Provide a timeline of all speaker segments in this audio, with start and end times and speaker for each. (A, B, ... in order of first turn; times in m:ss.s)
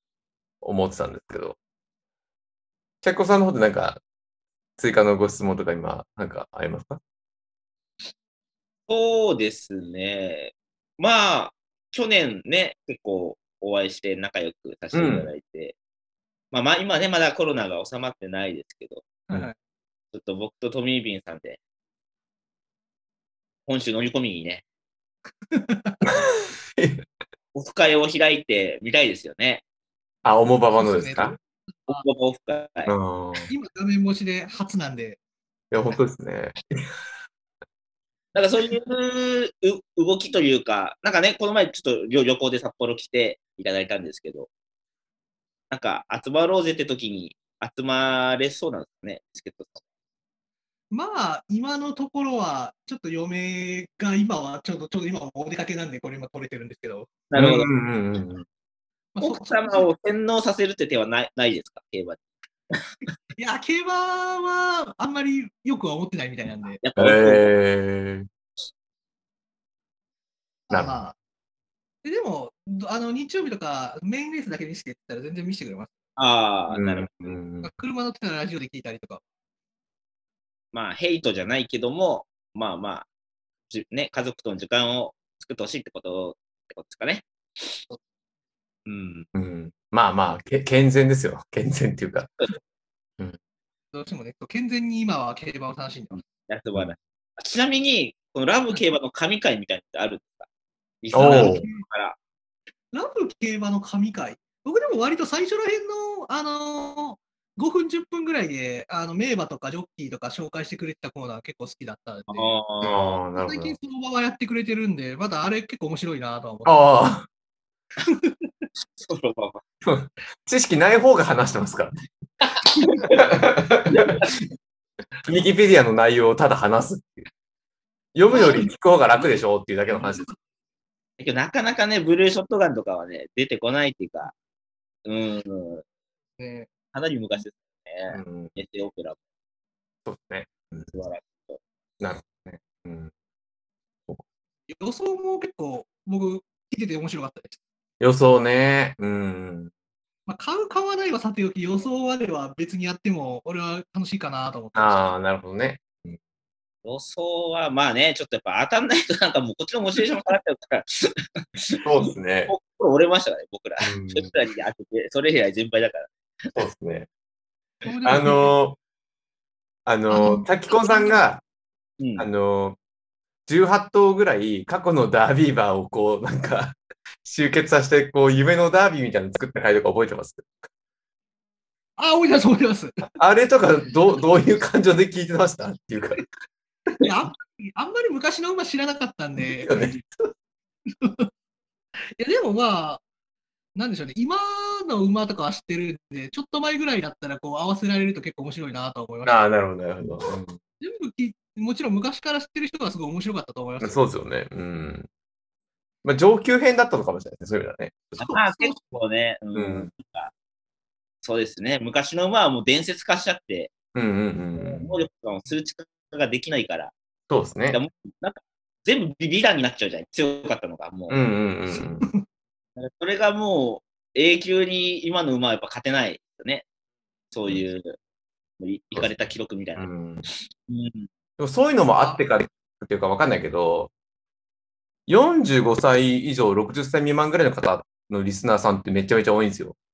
0:00.6-0:01.6 A
0:03.0-0:04.0 A
0:04.8-0:07.0 A
0:08.9-0:15.8 B
0:14.9-0:15.3 A
0:16.5-0:19.1 B
0:19.3-0:19.6 C
0:20.1-0:21.6 B
0:23.7-0:24.6 B
0:25.5-0:26.1 C
0:26.8-0:27.0 A
0:27.5-0:29.6 B
0:30.2-0:31.4 A
0:30.8-0:32.0 C
0:31.9-0:32.9 B
0:32.9-0:33.5 A
0:33.5-0:35.2 C
0:35.7-0:36.6 A
0:38.4-0:44.5 B
0:45.7-0:49.8 B
0:50.9-0:57.1 C
0:57.3-0:57.7 B
0:57.4-0:58.4 A
0:59.1-0:59.9 C
0:59.2-1:02.2 B
1:03.4-1:06.8 C
1:06.8-1:07.5 B
1:07.0-1:08.3 A
1:10.7-1:11.2 C
1:12.0-1:15.9 C
1:16.2-1:17.3 B
1:16.7-1:17.7 A
1:17.6-1:19.2 C
1:20.7-1:23.1 B
1:23.7-1:27.8 B
1:28.9-1:29.3 B
1:29.4-1:32.3 A
1:33.9-1:36.2 C
1:36.3-1:40.5 B
1:41.0-1:42.2 B
1:41.1-1:41.6 A
1:41.1-1:41.8 C
1:42.9-1:52.6 C
1:52.3-1:53.1 B
1:52.8-1:53.8 A
1:53.4-1:56.9 C
1:56.6-1:57.3 A
1:58.0-1:58.7 C
1:59.0-1:59.6 B
1:59.8-2:02.1 A
2:02.4-2:03.2 B
2:03.1-2:04.3 A
2:03.9-2:04.3 B
2:05.2-2:07.3 A
2:08.1-2:10.3 A
2:08.3-2:10.4 C
2:11.2-2:14.3 B
2:15.0-2:15.8 B
2:16.4-2:16.7 C
2:16.9-2:19.2 B
2:18.1-2:18.5 A
2:20.0-2:20.9 A
2:20.9-2:21.6 B
2:22.0-2:23.1 A
2:24.7-2:27.6 C
2:28.0-2:29.7 A
2:30.3-2:35.0 C
2:34.8-2:36.2 A
2:36.8-2:41.9 B
2:41.8-2:42.5 A
2:42.5-2:46.6 B
2:43.8-2:44.3 A
2:46.6-2:47.1 A
2:47.8-2:48.6 C
2:48.0-2:48.8 A
2:49.9-2:51.4 A
2:50.1-2:51.2 C
2:52.0-2:52.3 B
2:52.2-2:52.8 A
2:53.5-3:00.5 A
3:02.0-3:03.0 C
3:03.2-3:06.3 A
3:07.0-3:09.7 C
3:09.6-3:10.3 A
3:10.9-3:11.3 C
3:12.2-3:13.0 C
3:13.8-3:19.4 C
3:19.3-3:20.6 A
3:20.8-3:24.0 C
3:23.8-3:25.1 A
3:26.0-3:28.3 A
3:28.2-3:30.3 B
3:28.2-3:28.8 C
3:29.6-3:29.9 A
3:31.2-3:33.7 B
3:33.9-3:35.0 A
3:34.6-3:36.9 B
3:37.3-3:37.8 A
3:37.7-3:41.2 B
3:41.1-3:42.1 A
3:41.7-3:42.2 C
3:42.8-3:46.6 B
3:47.3-3:48.0 B
3:48.6-3:49.9 B
3:48.9-3:50.3 A
3:50.7-3:51.1 B
3:51.4-3:53.9 A
3:52.0-3:52.2 C
3:55.1-3:59.8 A